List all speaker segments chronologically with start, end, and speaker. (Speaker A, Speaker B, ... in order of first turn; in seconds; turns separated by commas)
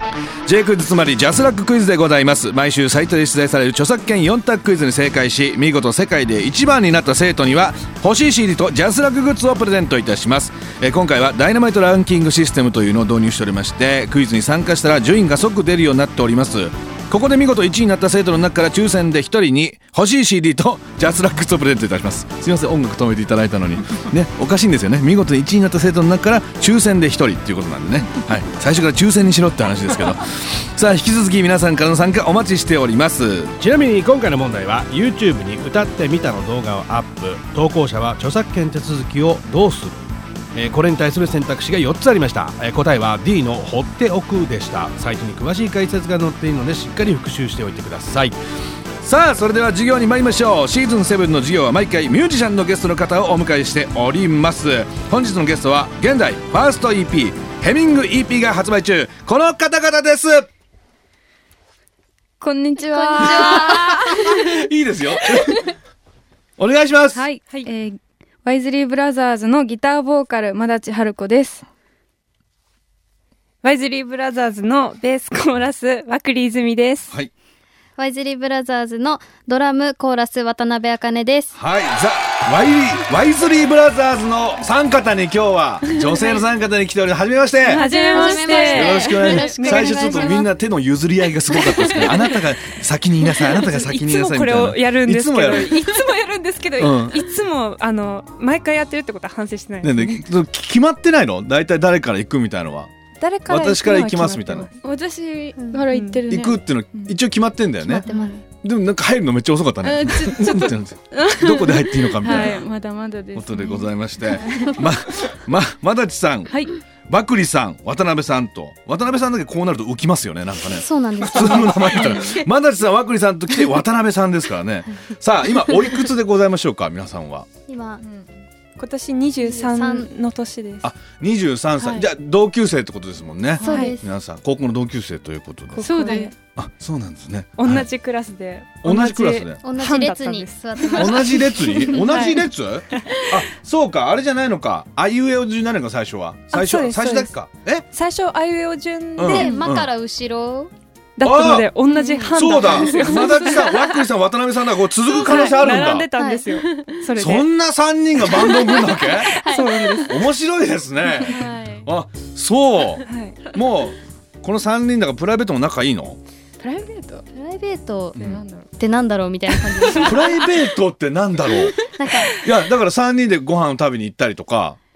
Speaker A: 0.5-33.6, Speaker B: 33.6-40.0, Speaker B: 40.5-48.4, Speaker A: 49.0-60.5, Speaker C: 62.4-64.7, Speaker D: 62.8-64.0, Speaker A: 63.2-65.7, Speaker C: 65.3-65.7, Speaker A: 66.6-67.2, Speaker C: 67.1-71.6, Speaker E: 73.6-77.1, Speaker D: 78.0-81.5, Speaker A: 81.5-87.8, Speaker E: 86.0-86.4, Speaker E: 87.7-90.4, Speaker C: 87.7-89.8, Speaker D: 87.8-90.4, Speaker A: 88.7-95.8, Speaker C: 91.8-92.2, Speaker E: 91.8-92.4, Speaker E: 93.2-100.2, Speaker A: 96.8-97.2, Speaker A: 99.8-102.9, Speaker E: 103.2-104.8, Speaker A: 103.5-104.7, Speaker C: 104.8-107.1, Speaker D: 105.5-105.8, Speaker E: 105.9-106.3, Speaker A: 106.3-108.1, Speaker C: 107.8-108.2, Speaker D: 108.0-108.4, Speaker A: 108.6-112.6, Speaker C: 109.8-114.8, Speaker A: 113.3-116.5, Speaker C: 116.5-116.7, Speaker A: 117.1-127.5, Speaker D: 120.7-122.2, Speaker D: 127.7-128.0, Speaker E: 128.8-130.8, Speaker D: 129.4-130.1, Speaker A: 130.8-135.8, Speaker C: 131.8-132.0, Speaker D: 133.6-134.1, Speaker E: 133.7-134.0, Speaker E: 135.7-136.3, Speaker C: 135.8-136.3, Speaker A: 136.6-137.8, Speaker E: 137.6-143.1, Speaker A: 138.8-139.6, Speaker D: 139.6-142.1, Speaker A: 140.9-147.8, Speaker E: 146.5-147.4, Speaker E: 147.9-149.6, Speaker A: 149.2-149.9, Speaker D: 149.2-150.7, Speaker E: 151.2-154.0, Speaker A: 151.2-156.1, Speaker C: 151.9-153.7, Speaker E: 155.1-157.5, Speaker D: 156.2-156.5, Speaker A: 157.2-159.4, Speaker E: 158.4-160.2, Speaker D: 158.5-160.1, Speaker A: 160.1-166.2, Speaker C: 161.1-161.9, Speaker E: 163.1-163.4, Speaker C: 166.6-167.2, Speaker D: 167.3-170.4, Speaker A: 168.2-168.4, Speaker C: 168.2-168.7, Speaker C: 169.8-170.2, Speaker A: 170.0-174.8, Speaker D: 171.8-172.3